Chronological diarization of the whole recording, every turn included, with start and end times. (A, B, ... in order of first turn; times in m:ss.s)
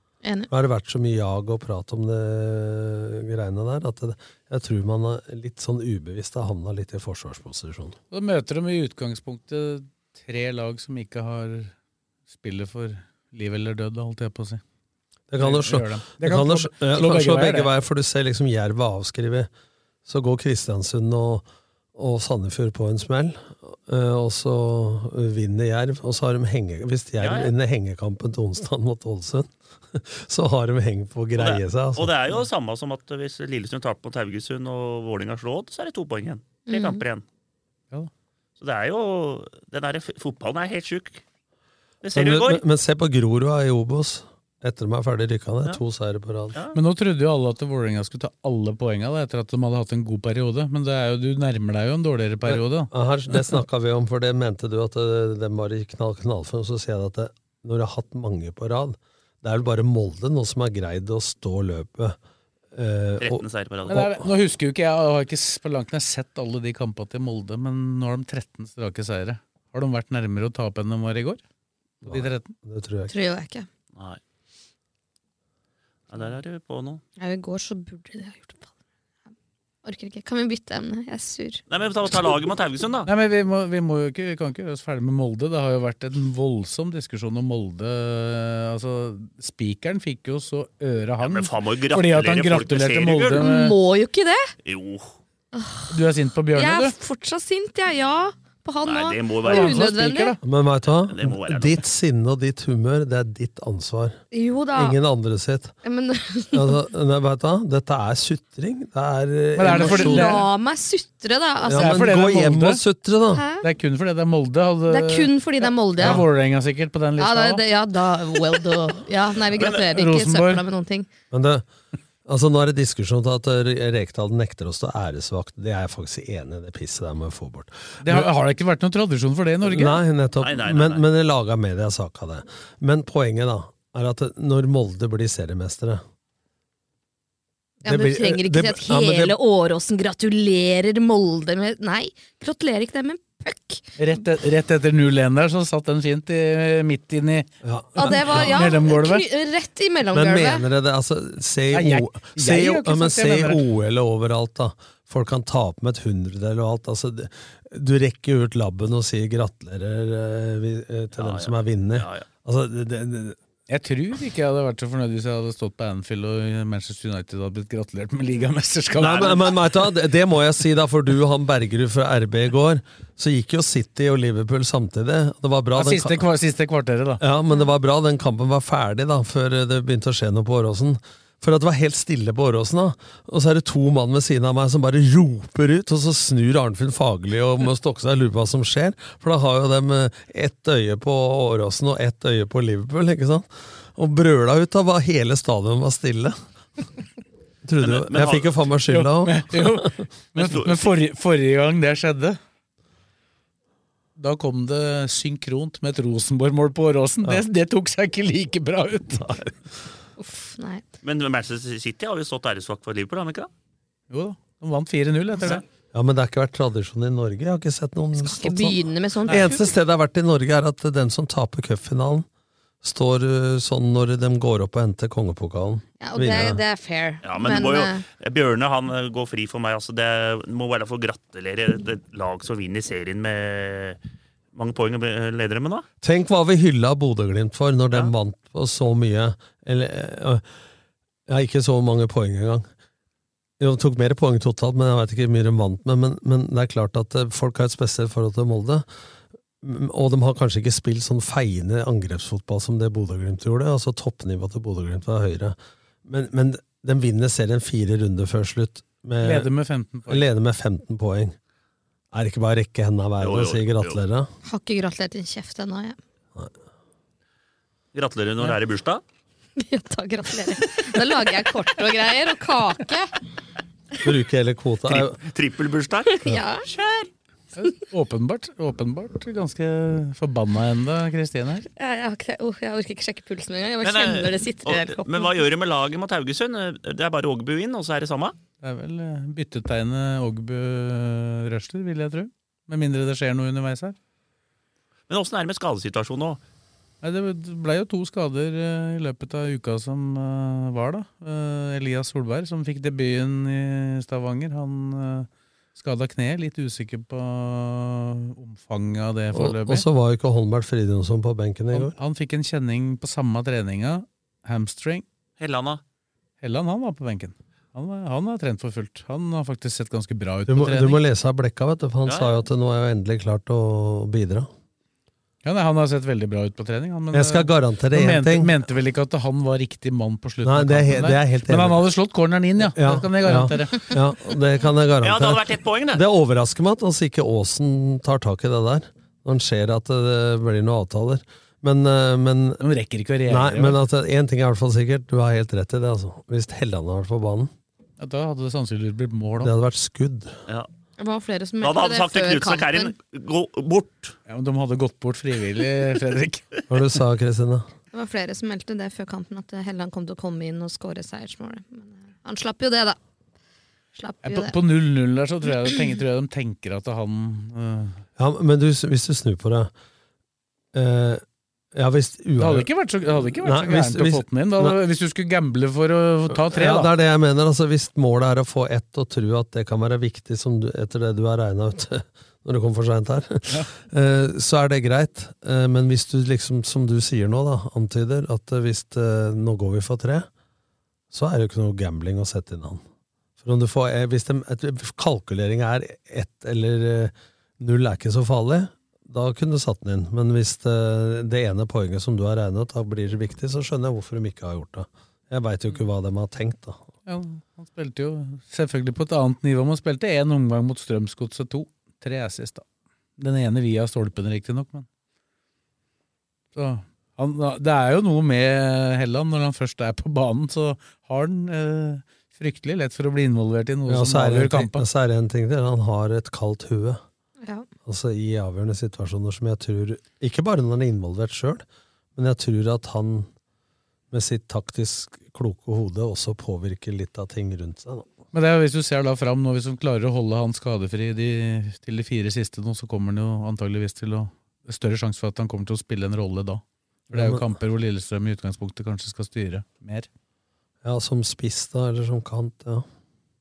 0:00.2-0:00.5 A
0:00.5-0:08.0 B
0:08.1-0:11.7 C
0:12.3-0:14.6 C
0:15.3-0:19.5 B
0:15.4-0:17.7 C
0:20.0-0:32.1 B
0:27.2-0:27.5 D
0:31.4-0:37.2 D
0:36.7-0:37.0 A
0:38.6-0:41.2 D
0:42.0-0:42.6 D
0:42.1-0:46.6 B
0:46.7-0:52.9 C
0:52.4-1:02.2 B
1:02.7-1:04.2 B
1:03.2-1:04.0 D
1:03.9-1:11.4 C
1:12.0-1:13.1 B
1:12.0-1:12.5 C
1:13.1-1:13.7 A
1:16.1-1:17.0 D
1:17.2-1:18.7 A
1:19.8-1:21.6 A
1:21.7-1:23.1 D
1:23.0-1:33.8 C
1:31.2-1:33.4 D
1:33.4-1:34.5 A
1:34.6-1:35.1 D
1:35.5-1:35.9 A
1:35.9-1:36.9 C
1:36.5-1:40.4 A
1:38.8-1:39.8 D
1:39.4-1:40.4 C
1:40.4-1:44.2 B
1:40.9-1:41.8 D
1:44.3-1:45.0 A
1:44.7-1:45.7 B
1:45.8-1:46.8 A
1:46.5-1:50.4 B
1:49.5-1:50.4 C
1:49.7-1:52.0 A
1:51.6-1:53.4 B
1:51.7-1:52.8 C
1:53.3-1:53.7 A
1:53.6-1:57.6 C
1:54.9-1:56.3 A
1:56.0-1:56.2 B
1:57.2-2:01.1 A
1:59.6-1:59.8 D
1:59.9-2:00.6 C
2:01.3-2:01.6 B
2:02.2-2:08.3 B
2:08.0-2:10.0 C
2:09.6-2:16.0 B
2:10.4-2:11.0 D
2:17.8-2:23.8 A
2:17.8-2:19.4 B
2:24.0-2:29.2 C
2:27.6-2:28.8 B
2:28.0-2:30.6 A
2:30.1-2:43.4 B
2:31.7-2:33.6 C
2:41.2-2:42.2 D
2:43.7-2:49.5 C
2:49.0-2:56.3 B
2:49.0-2:49.3 D
2:55.7-2:57.2 C
2:57.2-3:16.4 B
3:17.6-3:20.0 B
3:17.8-3:18.6 D
3:18.9-3:22.4 C
3:20.3-3:21.0 D
3:24.2-3:29.4 C
3:29.2-3:29.5 B
3:30.2-3:30.8 A
3:31.0-3:33.5 D
3:34.1-3:35.6 C
3:35.9-3:42.3 B
3:38.2-3:39.6 A
3:42.8-3:46.6 B
3:46.0-3:48.0 A
3:47.2-3:54.0 D
3:54.5-3:55.8 D
3:56.0-4:00.4 B
4:01.3-4:02.7 B
4:03.6-4:08.8 B
4:09.6-4:19.5 B
4:19.2-4:20.2 C
4:20.1-4:21.4 B
4:22.1-4:24.3 B
4:23.2-4:24.0 D
4:24.4-4:26.0 A
4:27.9-4:29.0 D
4:29.6-4:33.1 A
4:34.0-4:35.2 B
4:34.9-4:37.1 D
4:36.1-4:36.7 A
4:37.5-4:41.7 C
4:41.8-4:45.4 A
4:43.8-4:48.4 D
4:48.6-4:54.0 C
4:55.1-4:56.4 D
4:57.0-5:09.8 C
5:09.3-5:11.9 B
5:11.7-5:15.0 C
5:15.4-5:15.8 D
5:16.4-5:21.0 C
5:20.5-5:24.5 B
5:22.0-5:22.4 D
5:25.4-5:33.9 C
5:27.1-5:28.6 B
5:30.4-5:31.8 B
5:32.6-5:42.6 B
5:35.0-5:36.0 D
5:42.6-5:43.8 C
5:43.3-5:47.5 B
5:48.0-5:49.5 C
5:49.4-5:50.3 B
5:51.0-5:52.9 A
5:51.6-5:54.2 D
5:54.3-5:56.6 C
5:56.7-5:57.7 B
5:57.9-6:03.0 A
6:03.9-6:04.5 A
6:04.2-6:08.0 C
6:08.2-6:09.7 B
6:10.7-6:11.2 B
6:11.7-6:12.7 B
6:12.4-6:16.9 C
6:13.4-6:14.8 B
6:16.4-6:30.3 B
6:31.1-6:32.8 B
6:33.4-6:46.8 B
6:47.0-6:52.6 C
6:53.2-6:54.9 C
6:56.5-7:04.8 C
7:03.9-7:07.0 B
7:07.4-7:07.7 A
7:07.8-7:11.6 B
7:12.2-7:13.3 B
7:14.1-7:18.1 B
7:18.3-7:30.1 C
7:27.1-7:27.5 B
7:30.8-7:32.8 B